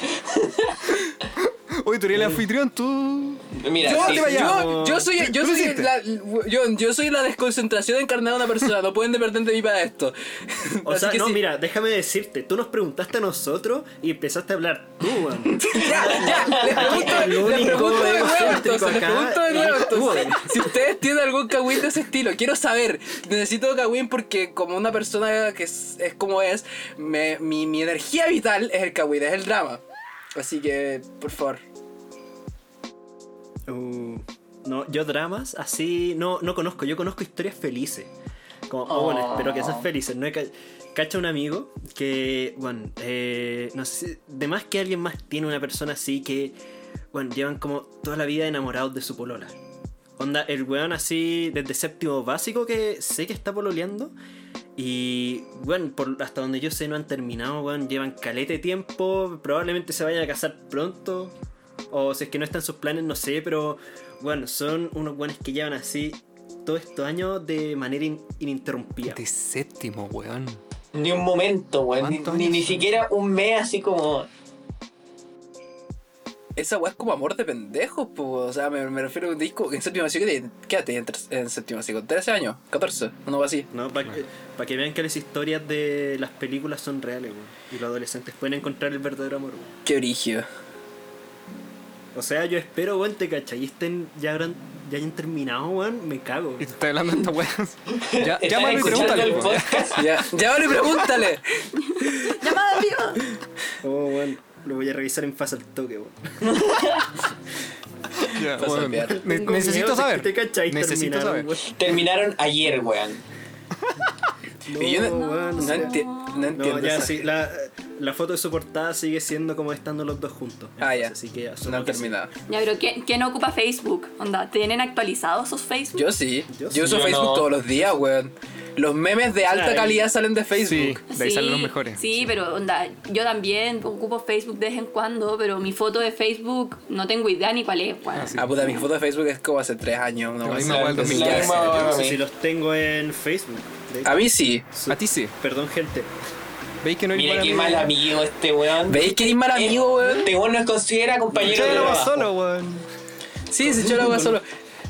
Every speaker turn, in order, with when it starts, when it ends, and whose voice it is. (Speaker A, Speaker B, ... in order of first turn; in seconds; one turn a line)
Speaker A: 0.2-0.8
Speaker B: 1.4-5.9
Speaker C: 2.1-2.4
Speaker A: 3.5-4.4
Speaker D: 3.8-11.4
Speaker C: 3.9-5.1
Speaker C: 10.8-20.7
Speaker A: 15.6-18.2
Speaker D: 15.7-29.8
Speaker D: 30.4-31.6
Speaker C: 33.7-38.1
Speaker C: 38.7-46.5
Speaker A: 38.9-39.8
Speaker C: 47.1-49.5
Speaker C: 50.2-54.1
Speaker C: 54.8-61.4
Speaker C: 61.9-69.2
Speaker B: 69.1-70.6
Speaker A: 70.9-74.3
Speaker B: 72.0-72.9
Speaker D: 76.5-83.7
Speaker C: 83.7-89.7
Speaker D: 89.8-90.5
Speaker C: 92.1-96.7
Speaker B: 96.6-100.2
Speaker A: 98.0-100.1
Speaker D: 99.9-102.5
Speaker B: 100.8-101.0
Speaker E: 101.9-103.3
Speaker C: 103.8-106.6
Speaker A: 106.5-107.0
Speaker B: 108.3-111.5
Speaker D: 108.5-109.3
Speaker C: 109.0-111.7
Speaker A: 111.7-113.2
Speaker C: 114.7-122.2
Speaker D: 114.7-117.3
Speaker E: 114.9-116.6
Speaker D: 120.8-122.3
Speaker E: 122.5-126.1
Speaker D: 125.9-131.0
Speaker C: 126.5-127.1
Speaker A: 126.7-127.5
Speaker C: 129.5-130.1
Speaker B: 130.6-132.3
Speaker E: 131.1-138.7
Speaker B: 138.1-138.8
Speaker D: 138.3-141.9
Speaker B: 140.4-141.7
Speaker A: 140.5-142.2
Speaker C: 141.1-146.1
Speaker D: 144.0-144.7
Speaker B: 144.9-145.3
Speaker B: 146.8-147.9
Speaker A: 147.1-152.2
Speaker D: 148.8-150.3
Speaker C: 151.3-152.3
Speaker B: 151.4-152.8
Speaker D: 153.5-154.4
Speaker C: 153.6-154.4